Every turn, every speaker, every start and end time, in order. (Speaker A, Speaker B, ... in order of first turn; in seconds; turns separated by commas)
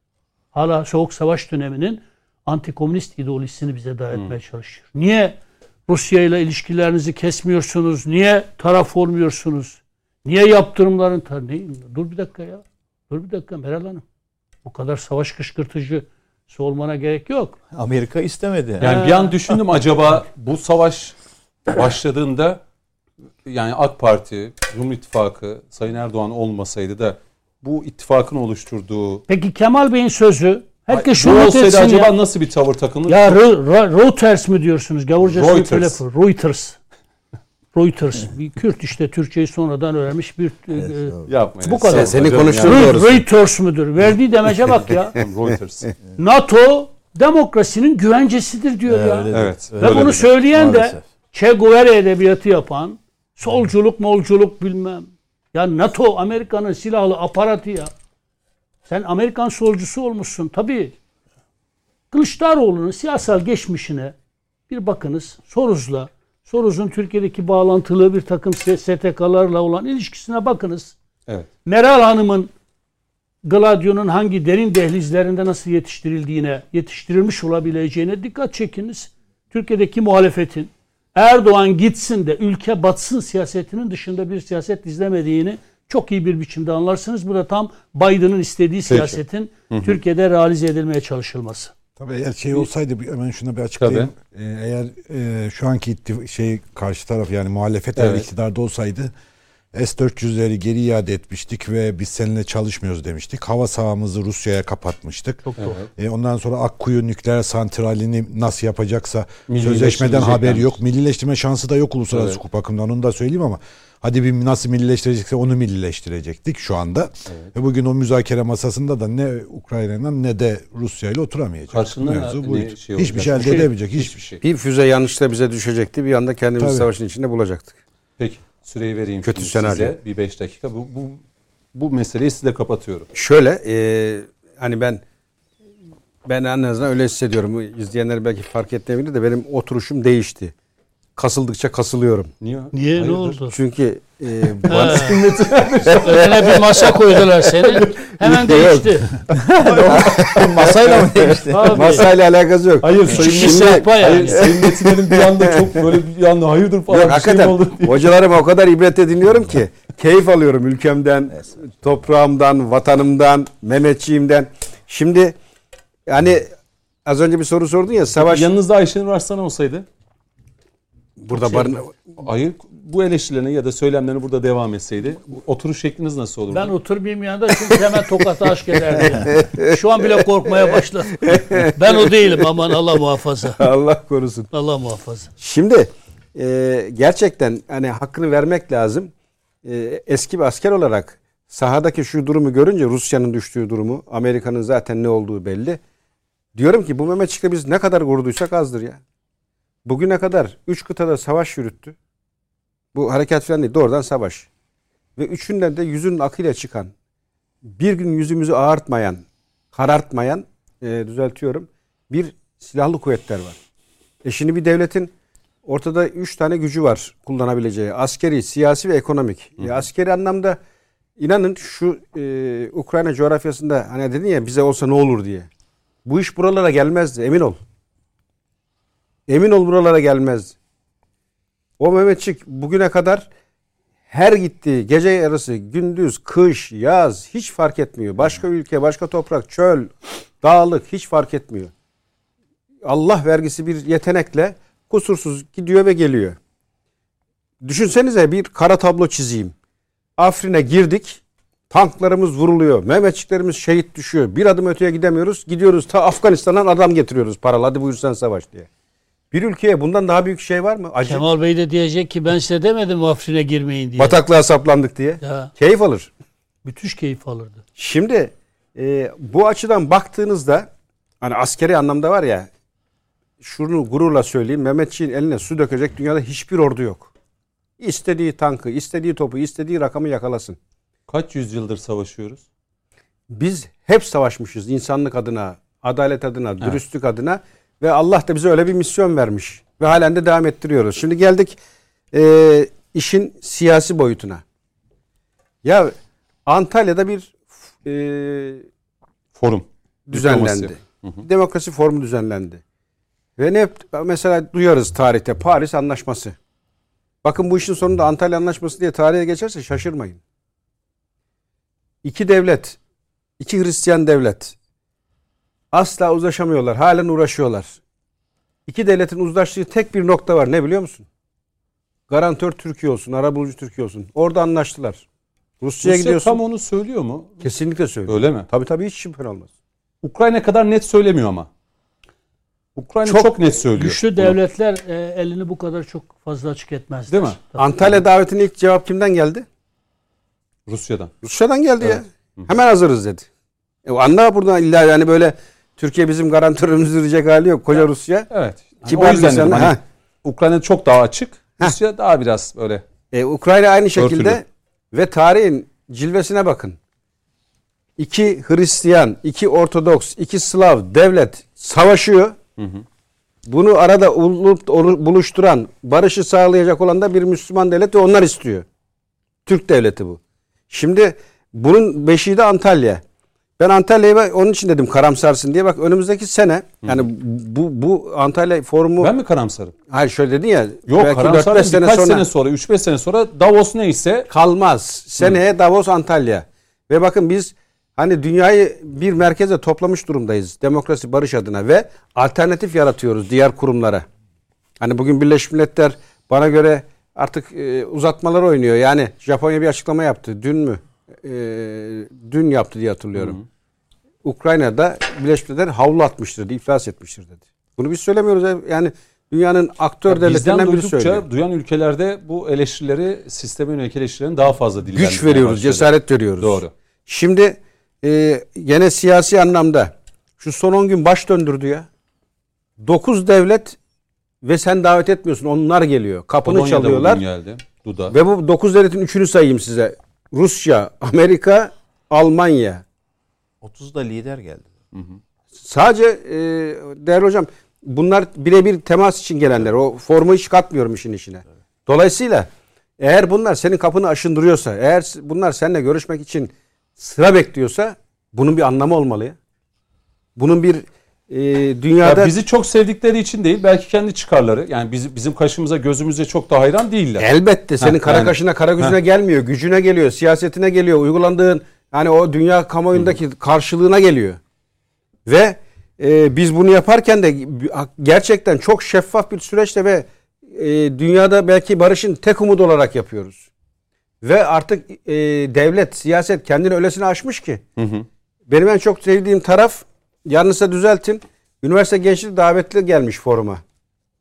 Speaker A: 0.5-14.0, Speaker A: 14.6-17.6, Speaker B: 17.7-18.9, Speaker A: 18.8-19.4, Speaker C: 18.8-21.1, Speaker C: 21.7-22.6, Speaker C: 23.4-29.2, Speaker A: 29.3-32.1, Speaker C: 30.9-33.2, Speaker A: 33.1-36.8, Speaker C: 35.2-36.0, Speaker A: 37.7-45.2, Speaker B: 40.8-41.3, Speaker C: 41.3-43.0, Speaker D: 41.9-43.2, Speaker C: 45.0-45.9, Speaker A: 46.2-57.9, Speaker B: 48.9-51.0, Speaker C: 49.3-50.2, Speaker A: 58.9-60.9, Speaker A: 62.1-64.1, Speaker A: 64.7-70.9, Speaker A: 71.7-72.5, Speaker A: 73.4-91.7, Speaker C: 88.9-90.0, Speaker E: 92.0-99.1, Speaker C: 93.8-94.1, Speaker C: 98.0-98.2, Speaker E: 99.7-124.3, Speaker A: 105.4-105.8, Speaker C: 105.6-105.9, Speaker C: 109.5-110.8, Speaker C: 112.1-112.4, Speaker C: 121.7-124.4, Speaker D: 124.4-127.7, Speaker E: 126.6-126.9, Speaker C: 128.2-131.2, Speaker D: 129.2-129.9, Speaker C: 131.7-133.1, Speaker D: 133.1-135.0, Speaker D: 136.2-140.5, Speaker D: 141.2-142.3, Speaker C: 142.4-143.4, Speaker A: 142.7-143.6, Speaker D: 143.5-145.9, Speaker A: 144.7-145.2, Speaker C: 144.7-146.6, Speaker A: 146.0-149.2, Speaker C: 147.6-148.6, Speaker D: 148.3-148.8, Speaker B: 149.3-152.0, Speaker D: 149.7-155.7, Speaker C: 149.8-151.1, Speaker A: 151.5-152.1, Speaker C: 152.8-158.1, Speaker A: 153.1-154.5, Speaker D: 156.9-165.3, Speaker D: 166.1-166.5, Speaker D: 167.1-168.5, Speaker C: 168.2-169.8, Speaker D: 171.2-171.9, Speaker C: 171.3-176.7, Speaker A: 176.5-183.7, Speaker D: 179.0-182.5, Speaker D: 183.6-184.5, Speaker A: 184.5-185.3, Speaker D: 185.4-189.1, Speaker D: 189.6-195.8, Speaker D: 196.5-199.0, Speaker D: 199.8-201.9, Speaker D: 202.9-204.5, Speaker D: 205.2-206.9, Speaker D: 207.7-213.6, Speaker D: 214.2-215.1, Speaker D: 215.6-220.6, Speaker D: 221.2-225.5, Speaker D: 226.0-227.6, Speaker D: 229.3-230.5, Speaker D: 231.8-233.3, Speaker D: 234.1-241.7, Speaker D: 242.8-246.4, Speaker D: 247.6-249.5, Speaker D: 250.2-258.7, Speaker D: 259.3-261.2, Speaker A: 261.0-264.2, Speaker D: 264.0-266.1, Speaker A: 265.2-265.5, Speaker A: 266.6-267.6, Speaker D: 267.8-270.7, Speaker D: 271.2-272.5, Speaker D: 273.4-277.1, Speaker D: 277.8-280.6, Speaker C: 281.1-282.4, Speaker D: 283.3-291.6, Speaker D: 292.1-294.4, Speaker D: 295.6-295.9, Speaker D: 296.4-298.6, Speaker C: 299.4-301.2, Speaker D: 300.1-302.6, Speaker D: 303.4-306.4, Speaker D: 307.2-310.2, Speaker D: 312.0-312.8, Speaker D: 313.4-314.5, Speaker D: 315.7-317.8, Speaker D: 318.7-321.1, Speaker D: 322.1-325.0, Speaker D: 325.6-326.4, Speaker C: 325.8-327.5, Speaker D: 327.4-329.5, Speaker C: 328.1-328.5, Speaker C: 330.0-331.5, Speaker C: 332.8-334.4, Speaker A: 333.7-337.6, Speaker C: 337.1-338.0, Speaker D: 337.6-339.4, Speaker C: 340.7-341.1, Speaker D: 341.2-343.3, Speaker C: 341.8-342.5, Speaker D: 343.8-348.3, Speaker C: 347.7-352.8, Speaker D: 348.9-349.8, Speaker D: 353.1-356.8, Speaker C: 353.9-354.4, Speaker D: 358.0-362.4, Speaker C: 362.6-362.8, Speaker D: 363.4-368.6, Speaker D: 369.4-373.0, Speaker D: 373.6-379.1, Speaker C: 379.0-379.7, Speaker D: 379.9-382.2, Speaker C: 380.9-384.3, Speaker D: 384.3-394.1, Speaker D: 394.8-403.4, Speaker C: 403.1-403.4, Speaker D: 404.2-411.2, Speaker C: 410.1-416.7, Speaker D: 414.9-421.9, Speaker D: 422.8-423.8, Speaker D: 424.4-427.2, Speaker C: 426.4-428.1, Speaker D: 428.1-432.8, Speaker B: 433.6-434.7, Speaker C: 434.9-435.2, Speaker D: 435.6-449.4, Speaker D: 450.4-452.3, Speaker C: 452.0-459.0, Speaker D: 457.2-464.4, Speaker D: 465.2-473.5, Speaker D: 474.2-477.6, Speaker C: 477.8-478.1, Speaker D: 478.5-483.6